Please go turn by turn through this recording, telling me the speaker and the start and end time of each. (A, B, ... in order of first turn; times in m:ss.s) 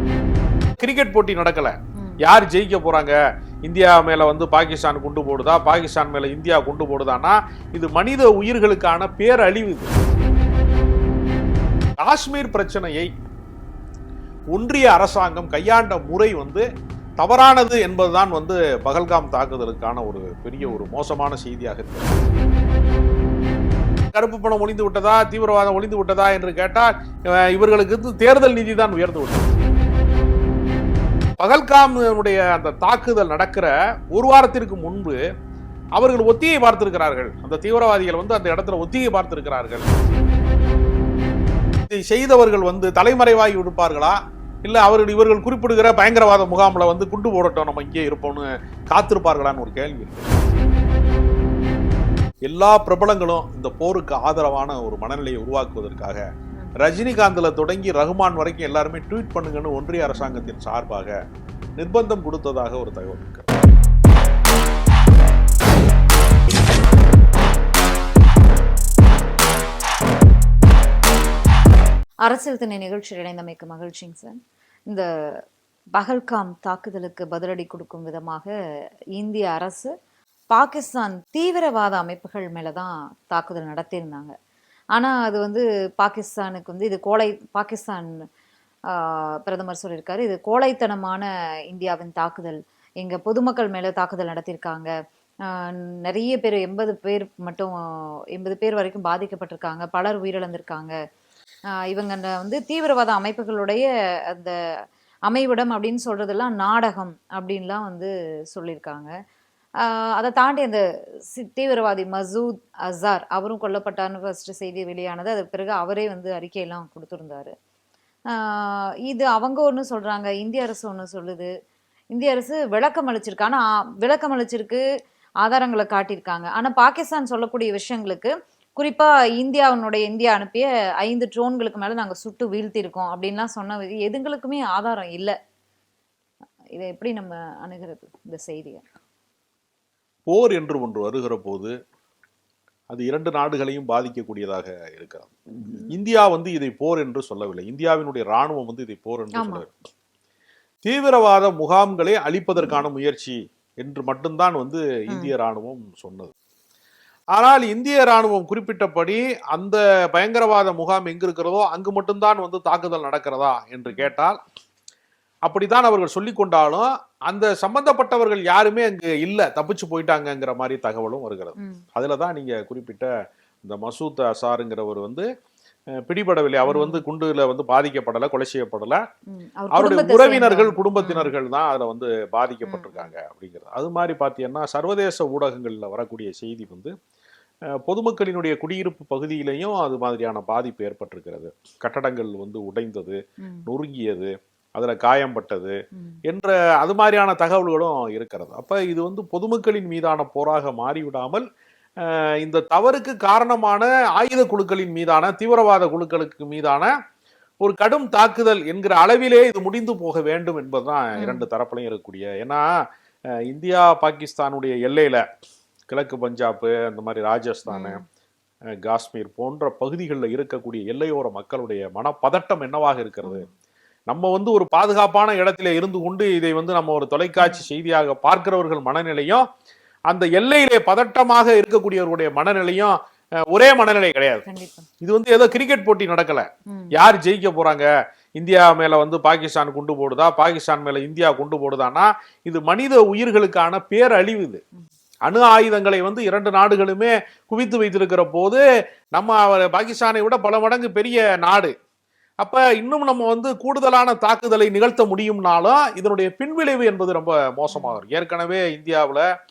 0:00.8-0:09.9 A
0:12.0-0:13.1 A
0:14.5-0:16.6 A
0:17.2-0:22.3 A
0:20.6-0:20.9 B
0:24.1-0:29.6 A
0:31.4-0:35.2 A
0:36.0-0:39.9 A
0:41.8-0:50.5 A
0:52.4-0:56.2 A
0:56.8-1:01.1 A
1:01.8-1:03.5 A
1:12.2-1:14.3 B
1:15.9-1:18.5 B
1:19.2-1:19.9 B
1:20.5-1:24.3 B
1:24.9-1:28.2 B
1:28.9-1:34.9 B
1:35.5-1:40.9 B
1:41.8-1:44.6 B
1:45.3-1:49.1 B
1:49.8-1:57.5 B
1:58.3-2:01.5 B
2:02.1-2:04.8 B
2:05.4-2:15.4 B
2:16.8-2:18.8 B
2:20.3-2:21.7 A
2:22.9-2:29.7 A
2:25.6-2:25.9 B
2:29.3-2:29.6 B
2:30.8-2:36.3 A
2:37.3-2:44.4 A
2:45.4-2:53.1 A
2:51.6-2:51.8 B
2:53.6-2:55.3 A
2:56.0-2:59.0 A
2:56.6-2:57.0 B
2:59.3-3:01.3 B
2:59.7-3:06.9 A
3:02.6-3:03.1 B
3:07.8-3:21.4 A
3:13.4-3:13.7 B
3:22.0-3:26.9 A
3:27.6-3:32.6 A
3:31.2-3:31.4 B
3:33.4-3:35.2 A
3:35.9-3:38.0 A
3:37.7-3:38.0 B
3:38.8-3:43.5 A
3:43.2-3:43.5 B
3:44.1-3:49.4 A
3:47.4-3:47.7 B
3:50.1-3:53.0 A
3:53.5-3:54.4 A
3:54.4-3:54.8 B
3:55.0-3:57.9 A
3:56.7-3:56.9 B
3:58.4-4:04.6 A
4:05.2-4:08.6 A
4:09.1-4:11.7 A
4:12.4-4:19.2 A
4:17.7-4:18.0 B